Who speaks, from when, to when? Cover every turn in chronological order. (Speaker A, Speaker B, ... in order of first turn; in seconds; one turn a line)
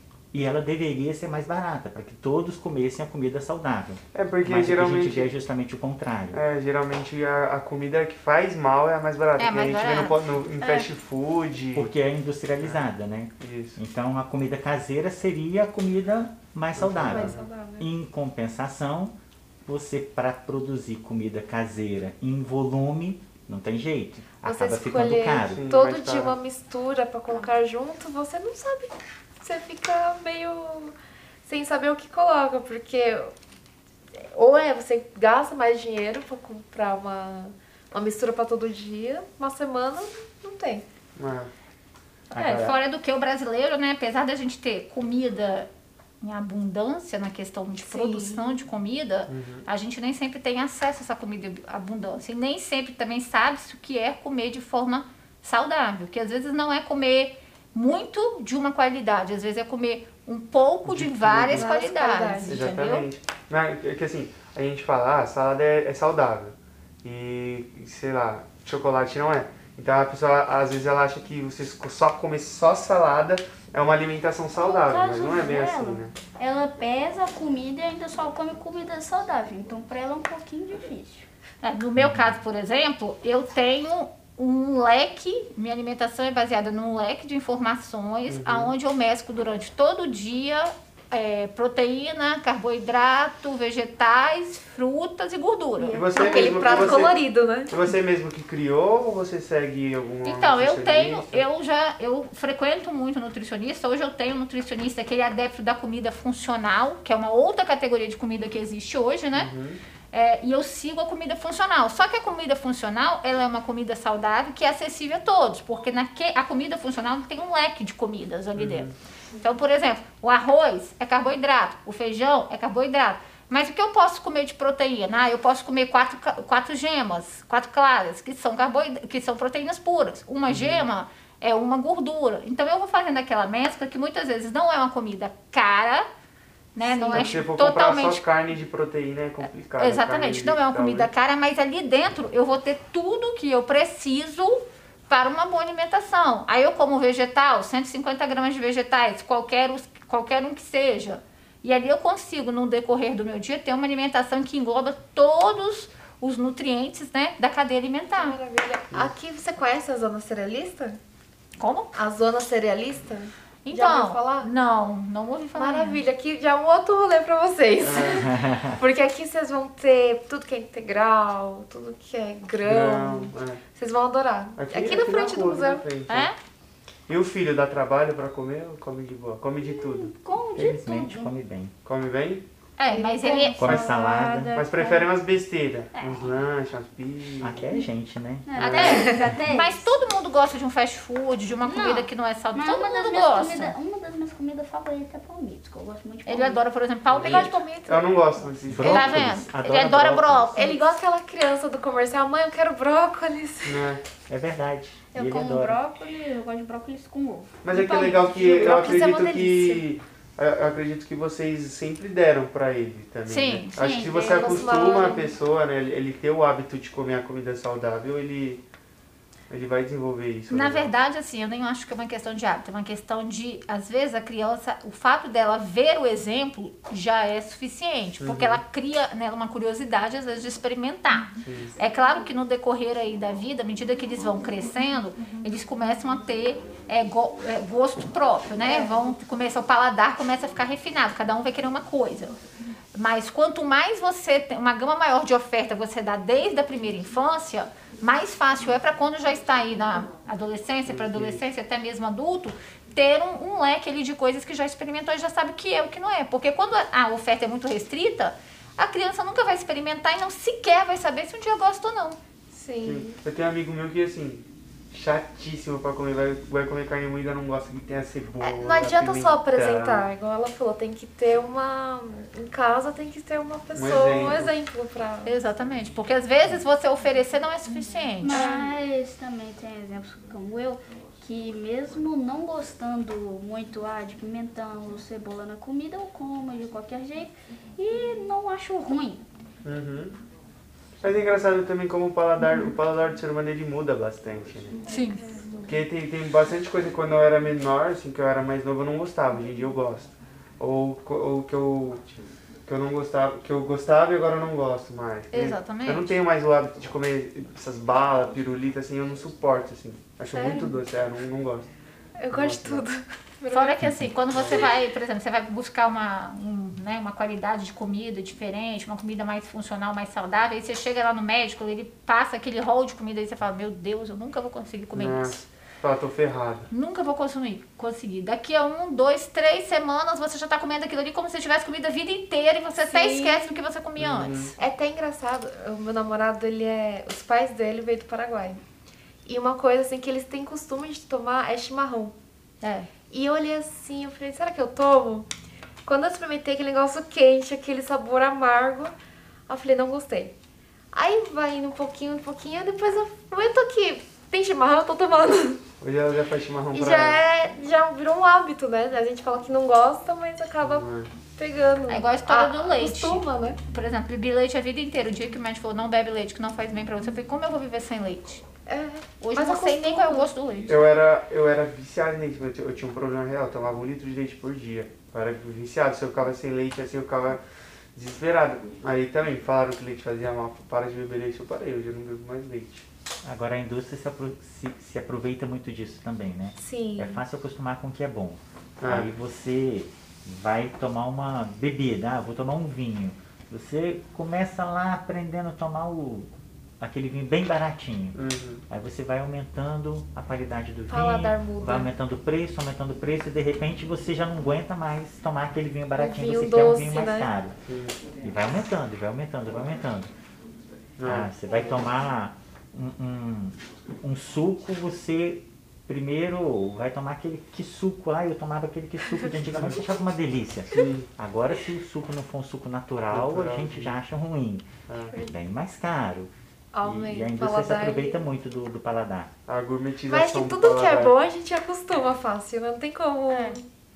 Speaker A: 0.3-6.4
Speaker B: 4.1-5.3
Speaker B: 6.3-11.9
Speaker C: 9.4-10.2
Speaker D: 10.6-10.9
Speaker A: 11.7-19.1
Speaker B: 13.4-13.8
Speaker B: 16.7-17.5
Speaker E: 17.1-17.9
Speaker A: 19.6-25.6
Speaker E: 24.4-33.3
Speaker B: 25.4-26.4
Speaker E: 34.1-40.8
Speaker B: 41.1-41.5
Speaker B: 42.3-42.8
Speaker C: 42.3-45.7
Speaker C: 46.2-63.1
Speaker E: 47.9-48.5
Speaker B: 49.3-49.7
Speaker B: 60.8-61.7
Speaker E: 61.5-62.6
Speaker B: 62.4-76.1
Speaker D: 74.5-81.3
Speaker C: 81.6-96.6
Speaker A: 82.0-82.3
Speaker B: 88.3-88.7
Speaker E: 95.8-97.8
Speaker B: 95.9-101.4
Speaker C: 100.2-109.5
Speaker B: 109.3-109.8
Speaker C: 110.1-136.1
Speaker B: 118.5-119.0
Speaker B: 130.5-130.9
Speaker C: 136.7-138.2
Speaker E: 136.8-137.2
Speaker B: 137.1-141.1
Speaker D: 137.1-137.4
Speaker C: 139.8-158.4
Speaker E: 158.1-161.0
Speaker C: 161.6-161.9
Speaker E: 161.9-164.5
Speaker C: 163.6-166.0
Speaker E: 165.6-175.9
Speaker B: 167.8-168.2
Speaker A: 168.1-168.8
Speaker B: 172.6-173.7
Speaker B: 174.6-176.3
Speaker C: 176.1-176.4
Speaker B: 177.1-180.1
Speaker D: 179.6-181.3
Speaker A: 180.5-181.7
Speaker B: 181.8-182.4
Speaker C: 182.8-183.7
Speaker D: 182.9-185.2
Speaker A: 183.6-184.5
Speaker B: 183.6-184.0
Speaker B: 184.5-187.6
Speaker D: 185.9-186.3
Speaker A: 187.4-189.3
Speaker D: 188.4-189.9
Speaker C: 188.6-193.7
Speaker D: 191.6-196.6
Speaker C: 196.2-197.6
Speaker B: 197.1-199.3
Speaker E: 197.2-198.4
Speaker A: 198.7-200.6
Speaker C: 198.8-200.9
Speaker E: 200.6-203.9
Speaker B: 203.7-204.0
Speaker A: 204.3-205.8
Speaker D: 205.1-209.0
Speaker B: 207.6-218.6
Speaker E: 208.5-209.9
Speaker C: 213.3-213.8
Speaker D: 213.8-214.9
Speaker E: 214.1-215.3
Speaker B: 219.5-220.9
Speaker C: 220.5-242.3
Speaker B: 228.2-228.6
Speaker B: 231.4-231.7
Speaker C: 242.9-262.2
Speaker B: 250.9-251.4
Speaker E: 262.5-263.2
Speaker B: 262.8-270.1
Speaker E: 268.4-275.3
Speaker B: 273.7-274.5
Speaker C: 275.2-278.5
Speaker D: 278.2-289.2
Speaker E: 278.3-278.7
Speaker B: 289.6-290.2
Speaker B: 291.0-294.8
Speaker C: 294.9-295.2
Speaker B: 295.7-302.1
Speaker B: 302.6-311.7
Speaker C: 305.3-306.2
Speaker E: 310.2-310.8
Speaker E: 312.2-313.8
Speaker B: 312.3-312.9
Speaker C: 313.5-325.4
Speaker B: 314.3-314.6
Speaker B: 324.9-326.7
Speaker C: 326.7-334.5
Speaker E: 332.8-333.5
Speaker B: 334.0-334.5
Speaker E: 334.6-338.6
Speaker E: 339.2-342.1
Speaker C: 342.6-342.9
Speaker E: 343.1-345.3
Speaker E: 345.8-348.9
Speaker E: 349.5-350.3
Speaker E: 350.9-355.7
Speaker B: 355.8-357.2
Speaker E: 356.7-363.6
Speaker B: 360.6-361.2
Speaker C: 361.9-368.4
Speaker E: 368.7-370.3
Speaker C: 369.2-370.9
Speaker B: 370.7-377.4
Speaker B: 377.9-382.9
Speaker A: 383.2-396.3
Speaker E: 386.6-387.2
Speaker B: 388.8-389.1
Speaker A: 396.8-398.2
Speaker B: 398.1-398.6
Speaker A: 398.7-407.6
Speaker E: 400.9-401.9
Speaker E: 405.9-407.3
Speaker B: 407.6-408.0
Speaker A: 408.2-410.1
Speaker B: 411.0-411.3
Speaker A: 411.0-424.7
Speaker B: 419.5-419.8
Speaker B: 420.7-421.1
Speaker B: 423.1-424.0
Speaker B: 424.9-425.2
Speaker A: 425.2-426.3
Speaker E: 426.7-428.2
Speaker A: 426.8-429.3
Speaker B: 429.4-431.2
Speaker E: 430.0-433.7
Speaker D: 433.3-433.6